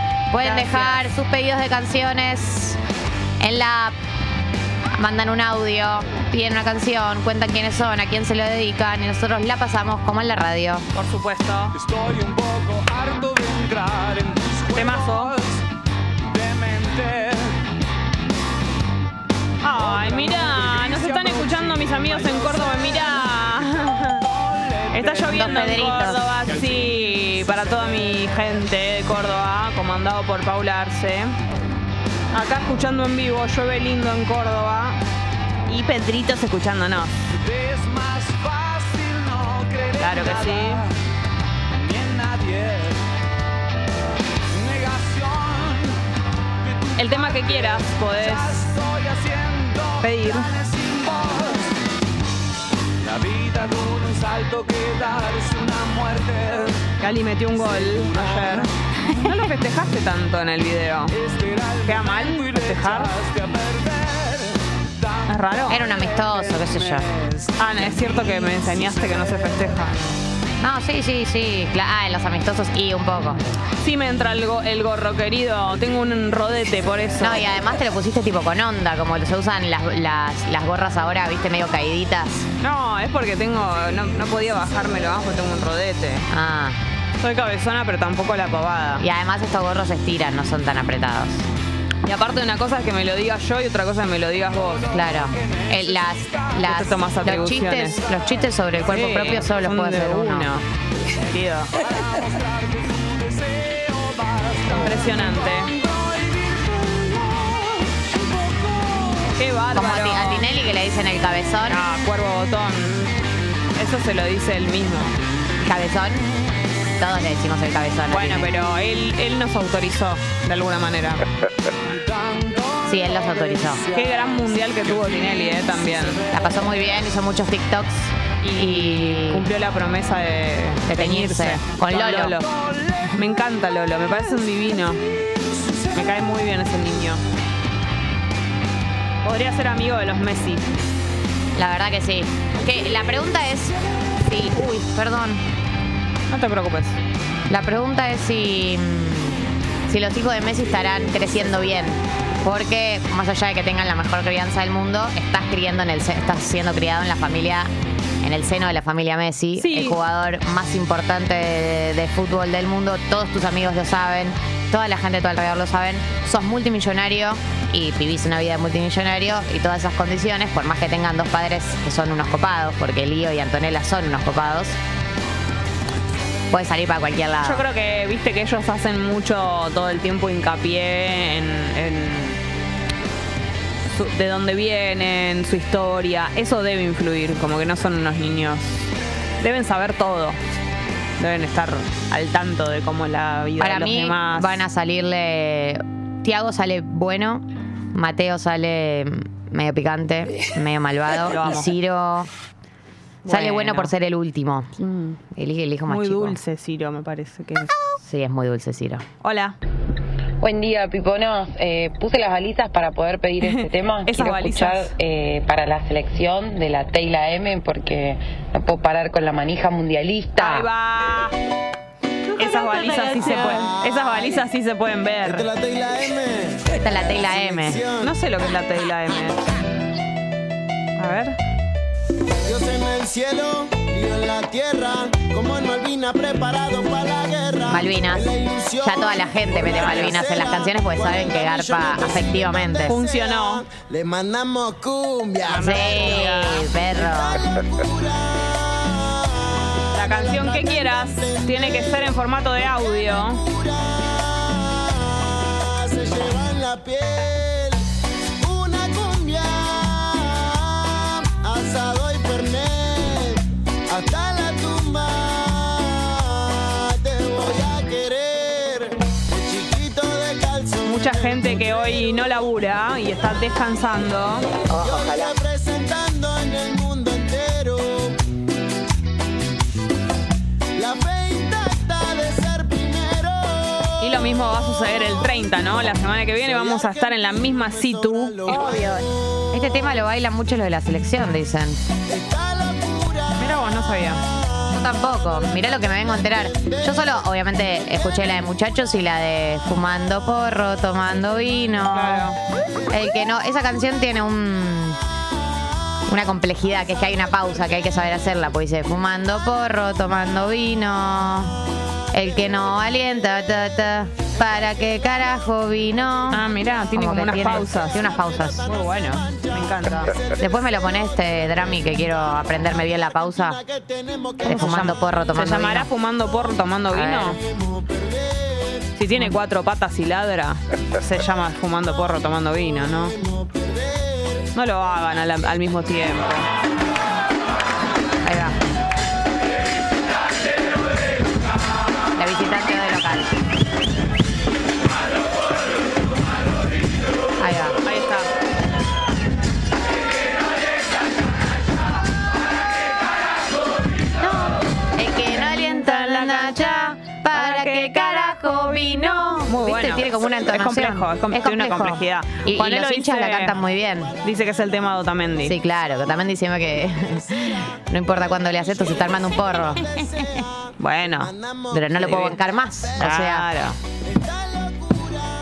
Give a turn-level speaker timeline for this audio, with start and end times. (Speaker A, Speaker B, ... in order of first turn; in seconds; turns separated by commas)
Speaker A: 0.3-2.8, Speaker B: 0.4-1.0, Speaker A: 3.4-4.0, Speaker A: 4.9-10.9, Speaker B: 10.9-11.8, Speaker C: 11.7-15.6, Speaker B: 14.7-15.3, Speaker C: 16.3-17.5, Speaker B: 19.6-24.2, Speaker C: 19.7-25.6, Speaker B: 24.9-31.3, Speaker A: 25.3-26.2, Speaker C: 26.4-28.0, Speaker B: 32.3-35.0, Speaker B: 35.7-37.1, Speaker C: 37.3-40.9, Speaker B: 40.0-40.8, Speaker C: 41.7-43.0, Speaker C: 44.5-46.0, Speaker C: 46.6-51.7, Speaker B: 47.0-48.7, Speaker B: 50.0-50.5, Speaker C: 53.0-56.8, Speaker B: 57.0-61.1, Speaker C: 57.5-58.7, Speaker C: 61.1-69.8, Speaker B: 61.8-63.1, Speaker B: 65.3-65.8, Speaker A: 65.7-67.1, Speaker B: 67.6-70.2, Speaker A: 70.6-73.4, Speaker B: 73.8-77.5, Speaker A: 77.2-82.5, Speaker B: 82.6-86.3, Speaker A: 86.3-86.8, Speaker B: 87.2-89.0, Speaker A: 89.0-91.4, Speaker B: 92.0-94.8, Speaker A: 94.9-100.5, Speaker C: 95.0-96.6, Speaker B: 96.6-98.0, Speaker B: 98.9-100.7, Speaker B: 101.2-101.7, Speaker C: 101.8-109.3, Speaker B: 104.7-105.7, Speaker B: 109.4-110.5, Speaker A: 109.7-111.8, Speaker B: 111.7-113.1, Speaker B: 113.7-115.1, Speaker A: 115.6-116.3, Speaker A: 117.0-118.5, Speaker B: 118.1-121.2, Speaker C: 121.9-127.0, Speaker A: 122.8-123.8, Speaker B: 123.9-126.2, Speaker A: 126.3-129.5, Speaker B: 128.4-132.5, Speaker A: 130.8-132.3, Speaker C: 132.5-133.1, Speaker B: 133.1-135.0, Speaker B: 135.9-137.2, Speaker B: 139.2-140.7, Speaker A: 141.5-145.4, Speaker B: 146.3-147.0, Speaker A: 147.5-157.7, Speaker A: 158.2-174.8, Speaker B: 159.6-160.0, Speaker A: 176.5-177.6, Speaker B: 177.4-182.4, Speaker B: 183.9-188.8, Speaker B: 189.4-190.4, Speaker B: 191.2-194.5, Speaker A: 193.6-202.3, Speaker B: 201.3-201.7, Speaker B: 203.2-203.9, Speaker A: 203.2-204.7, Speaker B: 204.8-205.2, Speaker A: 205.3-206.4, Speaker B: 205.9-207.8, Speaker A: 208.0-209.0, Speaker B: 209.2-209.6, Speaker D: 210.4-220.7, Speaker B: 213.4-214.9, Speaker B: 220.3-221.3, Speaker B: 222.3-225.5, Speaker E: 223.2-224.4, Speaker E: 225.2-228.1, Speaker A: 226.8-227.8, Speaker B: 228.0-229.4, Speaker B: 231.0-231.4, Speaker E: 232.4-257.8, Speaker A: 237.7-238.2, Speaker A: 238.8-243.0, Speaker B: 239.7-240.2, Speaker B: 242.8-243.6, Speaker B: 245.4-246.7, Speaker A: 245.5-247.4, Speaker B: 249.9-253.4, Speaker E: 258.4-272.2, Speaker B: 270.8-274.5, Speaker A: 274.7-275.3, Speaker E: 274.7-278.1, Speaker E: 280.8-284.2, Speaker B: 284.0-288.6, Speaker E: 284.8-289.1, Speaker A: 288.5-291.8, Speaker E: 292.1-293.5, Speaker B: 293.4-294.2, Speaker A: 294.7-302.3, Speaker E: 296.6-297.1, Speaker B: 301.9-302.4, Speaker A: 302.9-305.0, Speaker A: 306.1-311.5, Speaker A: 312.1-318.7, Speaker B: 316.3-318.1, Speaker E: 317.9-320.5, Speaker B: 318.6-320.1, Speaker A: 320.4-323.6, Speaker E: 323.4-324.7, Speaker A: 324.4-325.9, Speaker B: 324.4-327.4, Speaker A: 326.9-327.4, Speaker E: 327.4-328.8, Speaker B: 328.9-333.1, Speaker E: 333.1-334.5, Speaker B: 334.5-336.5, Speaker A: 338.2-338.6, Speaker A: 342.1-343.3, Speaker A: 347.4-347.8, Speaker B: 347.8-348.3, Speaker A: 354.2-364.1, Speaker B: 355.8-363.6, Speaker B: 364.2-365.6, Speaker A: 365.4-370.3, Speaker E: 368.4-370.6, Speaker B: 370.8-371.3, Speaker E: 371.1-372.2, Speaker A: 371.7-373.5, Speaker B: 371.9-372.4, Speaker B: 373.0-373.8, Speaker E: 374.0-375.2